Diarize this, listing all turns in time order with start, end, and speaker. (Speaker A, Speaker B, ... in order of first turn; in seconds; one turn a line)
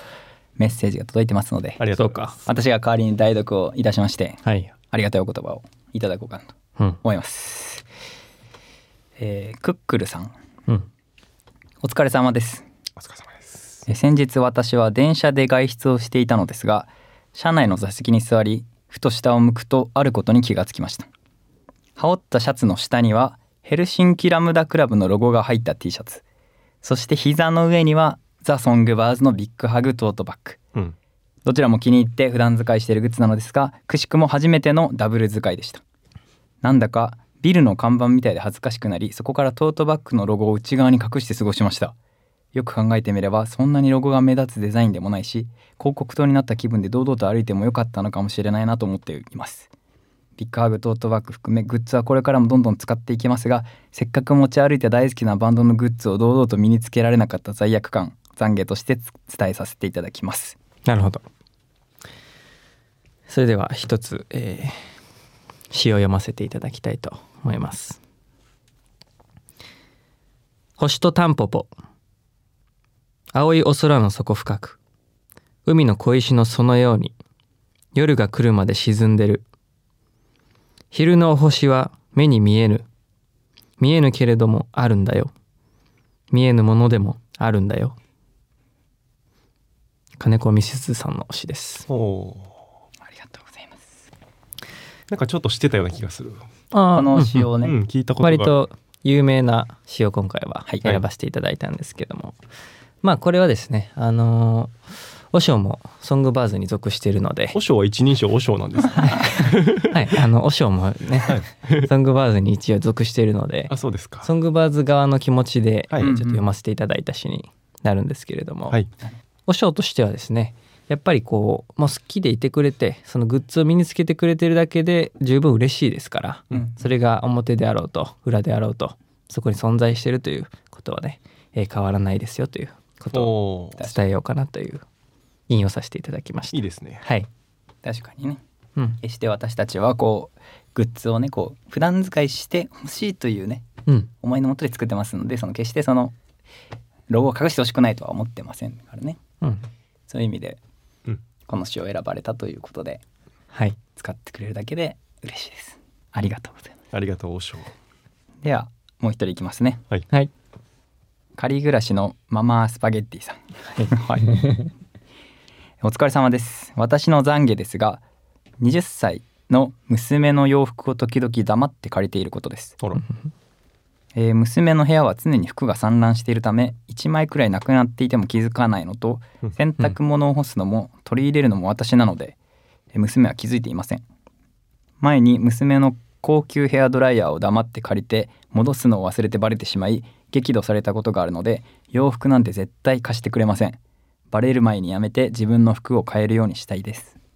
Speaker A: 0.6-1.8
Speaker B: 1.8-2.3
Speaker C: 2.0-2.4
Speaker A: 2.4-4.4
Speaker C: 4.4-4.7
Speaker A: 4.9-7.8
Speaker A: 9.2-10.3
Speaker A: 11.8-12.6
Speaker B: 13.0-13.8
Speaker A: 13.9-21.1
Speaker A: 22.0-26.2
Speaker A: 26.8-30.6
Speaker A: 31.4-35.8
Speaker A: 36.6-41.9
Speaker A: 42.5-49.7
Speaker A: 50.4-60.6
Speaker C: 60.9-61.2
Speaker C: 63.3-64.8
Speaker C: 65.7-68.0
Speaker C: 70.8-71.7
Speaker C: 73.3-74.8
Speaker C: 75.7-77.1
Speaker C: 77.9-79.4
Speaker C: 80.9-82.8
Speaker C: 83.8-85.3
Speaker C: 86.3-87.9
Speaker C: 90.2-91.9
Speaker B: 91.9-92.5
Speaker A: 93.0-94.0
Speaker B: 95.1-96.4
Speaker C: 96.7-97.5
Speaker A: 96.9-97.7
Speaker B: 97.6-98.6
Speaker C: 98.2-102.3
Speaker C: 103.0-104.8
Speaker C: 105.3-107.6
Speaker B: 107.5-110.2
Speaker C: 108.9-118.8
Speaker B: 111.2-111.9
Speaker B: 113.7-114.3
Speaker A: 116.0-116.4
Speaker C: 119.5-134.8
Speaker B: 133.1-133.8
Speaker C: 135.5-137.3
Speaker B: 136.5-137.0
Speaker A: 137.8-138.4
Speaker A: 139.0-143.7
Speaker A: 144.2-146.1
Speaker A: 147.1-149.2
Speaker C: 149.4-149.7
Speaker A: 150.1-150.6
Speaker A: 151.5-153.0
Speaker A: 153.9-156.8
Speaker B: 156.9-157.7
Speaker A: 158.4-159.8
Speaker A: 161.4-164.5
Speaker C: 163.8-164.6
Speaker A: 165.8-168.0
Speaker A: 168.6-172.8
Speaker A: 174.1-182.4
Speaker A: 182.9-184.0
Speaker A: 185.0-193.8
Speaker A: 194.3-197.1